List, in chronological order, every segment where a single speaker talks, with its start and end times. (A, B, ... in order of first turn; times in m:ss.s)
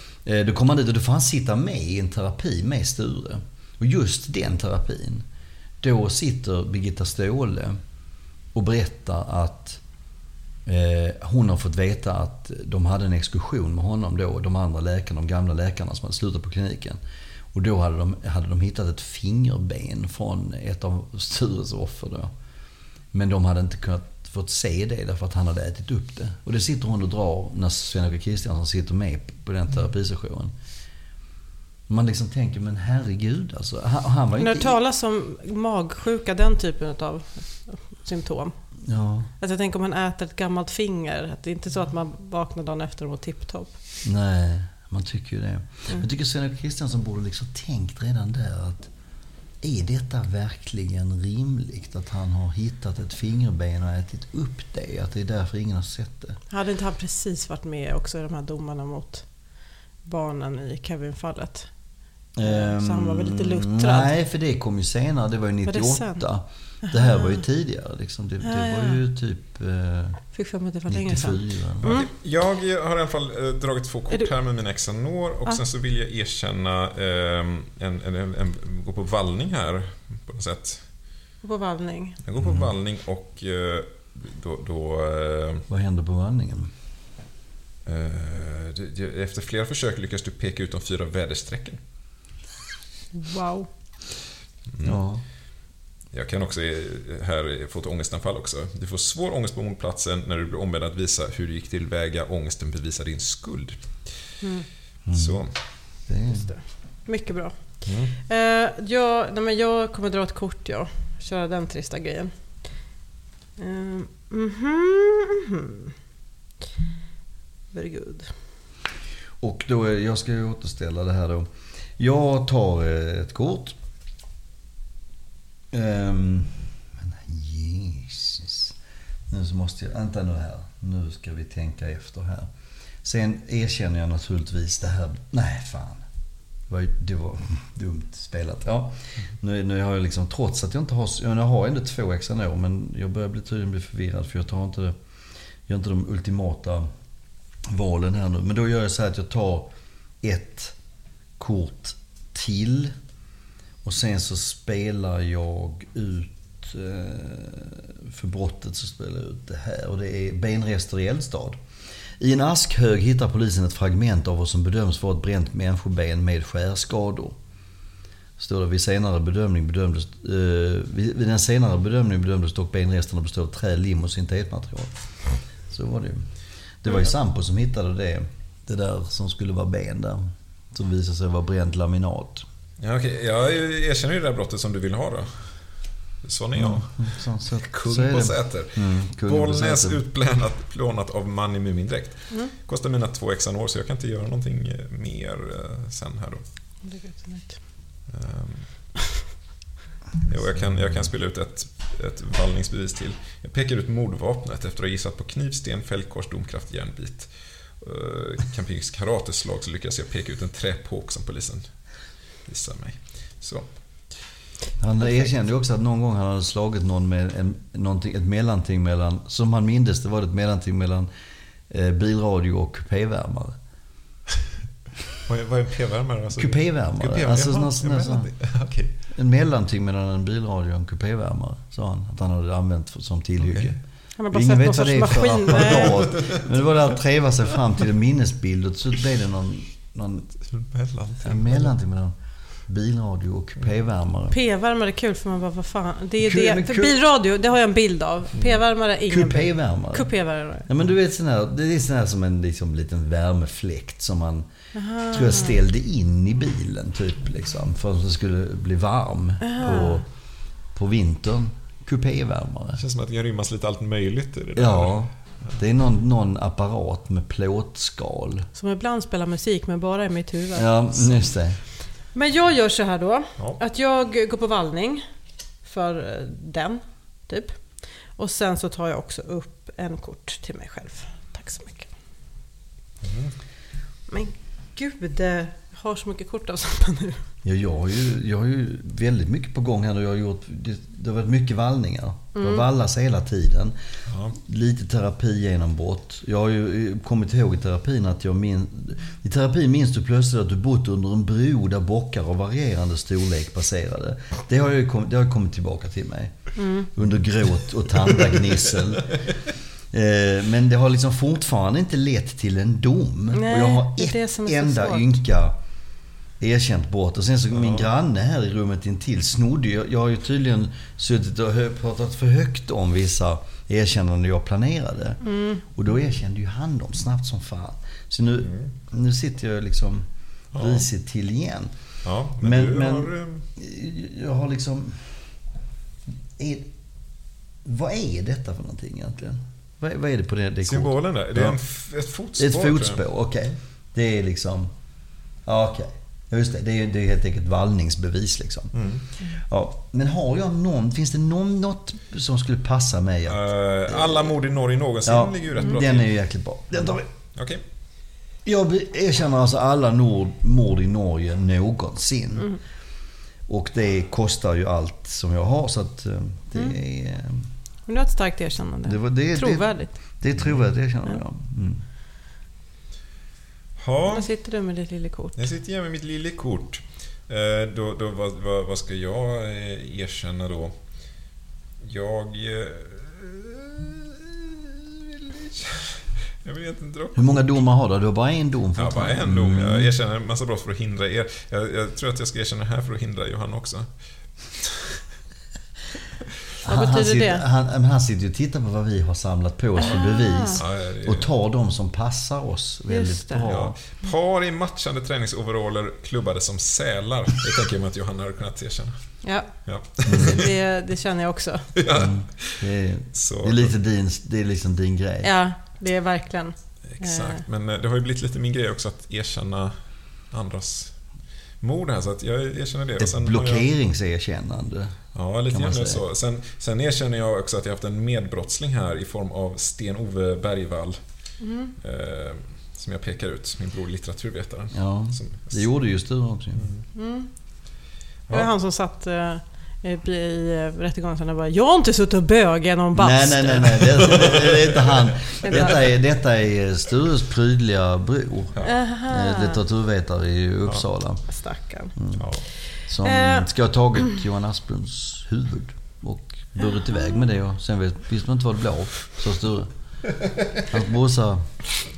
0:00.2-0:05.2 A
0:05.8-0:07.8 A
0:08.5-0:09.8 A
0:10.6-0:17.0 A
0:17.5-0:22.3 A
0:23.1-0:30.5 A
0:31.9-0:34.8 A
0:34.4-0:38.6 B
0:38.8-0:39.3 A
0:39.4-0:43.8 B
0:44.0-0:48.9 A
0:49.6-0:56.4 A
0:56.5-1:04.1 B
1:02.4-1:10.2 A
1:05.6-1:06.3 B
1:06.8-1:07.4 B
1:08.4-1:09.0 B
1:10.3-1:12.1 B
1:10.9-1:11.9 A
1:11.8-1:20.9 C
1:21.4-1:22.2 B
1:22.2-1:25.6 C
1:22.4-1:22.7 A
1:25.7-1:26.7 A
1:27.8-1:31.8 C
1:33.1-1:33.7 B
1:34.7-1:35.0 C
1:34.8-1:35.2 A
1:36.1-1:44.2 C
1:44.4-1:44.7 B
1:45.0-1:46.5 A
1:45.1-1:45.6 C
1:46.2-1:52.9 B
1:47.8-1:48.1 C
1:53.6-1:55.9 B
1:57.7-1:58.3 B
1:59.4-2:03.8 A
2:05.7-2:08.7 A
2:09.3-2:12.5 A
2:13.0-2:16.0 A
2:16.7-2:25.0 A
2:25.6-2:26.9 A
2:27.6-2:30.8 A
2:31.4-2:32.9 A
2:33.8-2:41.6 A
2:42.2-2:47.4 A
2:48.4-3:02.4 A
3:02.8-3:16.4 C
3:06.5-3:10.0 A
3:16.8-3:17.6 B
3:18.1-3:18.7 C
3:20.2-3:31.8 C
3:20.6-3:21.1 A
3:32.4-3:34.2 C
3:34.8-3:41.1 A
3:35.0-3:35.3 B
3:41.7-3:43.6 A
3:45.2-3:48.9 C
3:46.4-3:48.3 A
3:49.1-3:53.8 A
3:53.4-3:53.8 C
3:54.2-3:56.0 B
3:54.3-4:00.3 A
3:55.8-3:56.4 C
4:00.4-4:01.7 C
4:01.2-4:02.1 A
4:02.7-4:04.4 A
4:04.3-4:10.7 B
4:06.2-4:06.9 A
4:09.1-4:10.1 A
4:10.7-4:14.5 A
4:14.7-4:15.6 B
4:15.1-4:20.0 A
4:19.4-4:20.0 B
4:20.7-4:22.8 A
4:22.8-4:25.0 C
4:24.6-4:28.5 A
4:28.5-4:31.2 B
4:30.5-4:31.6 A
4:32.1-4:35.0 B
4:35.6-4:41.9 B
4:43.0-4:43.4 C
4:44.1-4:47.3 B
4:47.4-4:53.8 A
4:52.3-4:52.6 B
4:54.1-4:54.4 C
4:54.3-5:09.2 A
5:06.6-5:06.9 B
5:09.9-5:15.5 A
5:13.3-5:15.2 B
5:16.4-5:31.7 A
5:17.5-5:17.8 C
5:25.2-5:25.6 B
5:28.4-5:28.7 C
5:30.5-5:30.9 C
5:32.0-5:33.4 C
5:32.4-5:35.2 A
5:36.4-5:36.7 A
5:37.6-5:41.6 A
5:40.6-5:43.0 C
5:42.4-5:44.7 A
5:45.4-5:48.7 A
5:48.7-5:49.0 C
5:49.3-5:54.4 A
5:53.2-5:56.1 C
5:55.0-5:57.1 A
5:56.8-5:57.6 C
5:58.4-6:02.5 A
6:03.5-6:07.5 A
6:07.9-6:09.9 B
6:08.8-6:11.8 A
6:10.4-6:10.7 C
6:13.8-6:14.3 C
6:14.1-6:15.4 B
6:15.4-6:20.8 C
6:21.8-6:27.6 C
6:27.1-6:29.9 A
6:28.8-6:35.0 C
6:36.6-6:43.8 A
6:36.6-6:37.4 B
6:39.8-6:40.6 B
6:40.6-6:41.3 C
6:42.9-6:43.5 B
6:43.5-6:50.4 C
6:49.2-6:51.7 B
6:50.0-6:50.4 A
6:51.8-6:53.7 C
6:51.9-6:55.3 A
6:55.2-6:57.4 B
6:56.8-7:03.7 C
7:03.0-7:06.0 A
7:05.1-7:15.7 C
7:11.4-7:11.7 B
7:14.7-7:16.6 A
7:16.5-7:16.9 C
7:16.9-7:17.8 B
7:18.3-7:24.3 B
7:22.9-7:31.3 A
7:24.2-7:25.8 C
7:25.4-7:25.8 B
7:28.6-7:29.6 B
7:31.3-7:34.2 B
7:32.0-7:39.7 A
7:32.1-7:32.4 C
7:36.6-7:37.1 B
7:40.7-7:41.6 A